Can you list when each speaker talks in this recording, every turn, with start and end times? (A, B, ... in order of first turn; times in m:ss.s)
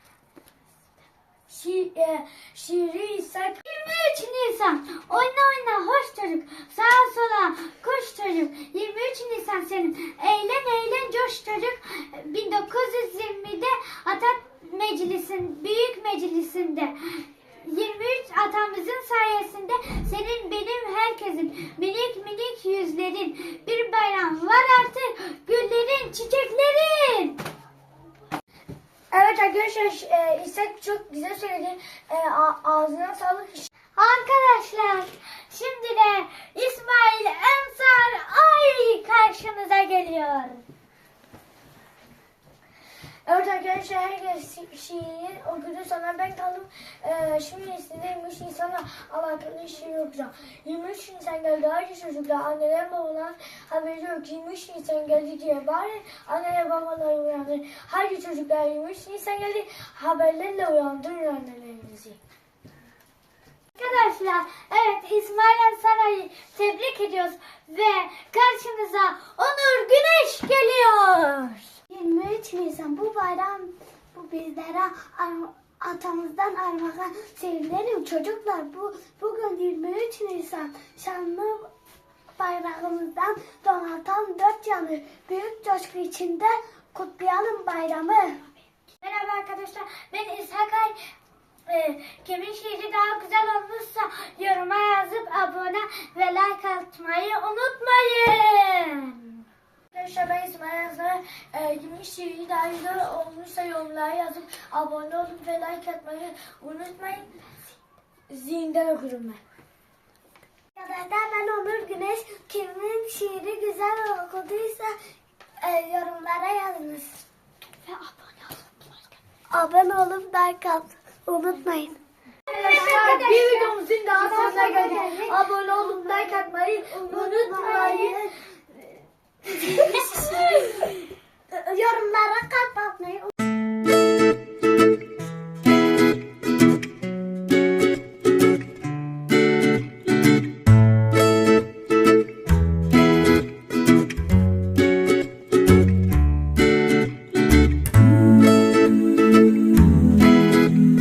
0:01.5-0:03.6 A
0:03.6-0:27.4 B
0:29.1-0:33.7 A
0:34.0-0:40.6 B
0:43.2-1:02.2 A
1:03.8-1:11.8 B
1:11.9-1:21.7 C
1:22.4-1:28.4 C
1:29.0-1:31.0 B
1:31.7-1:39.5 B
1:39.9-1:47.3 A
1:48.3-1:49.4 A
1:50.8-1:54.9 C
1:55.6-1:57.2 C
1:57.8-1:58.7 B
1:59.5-2:02.0 C
2:02.5-2:03.8 B
2:02.5-2:08.2 A
2:04.2-2:08.3 C
2:04.4-2:04.7 B
2:09.7-2:10.9 C
2:10.0-2:10.4 B
2:11.5-2:13.3 C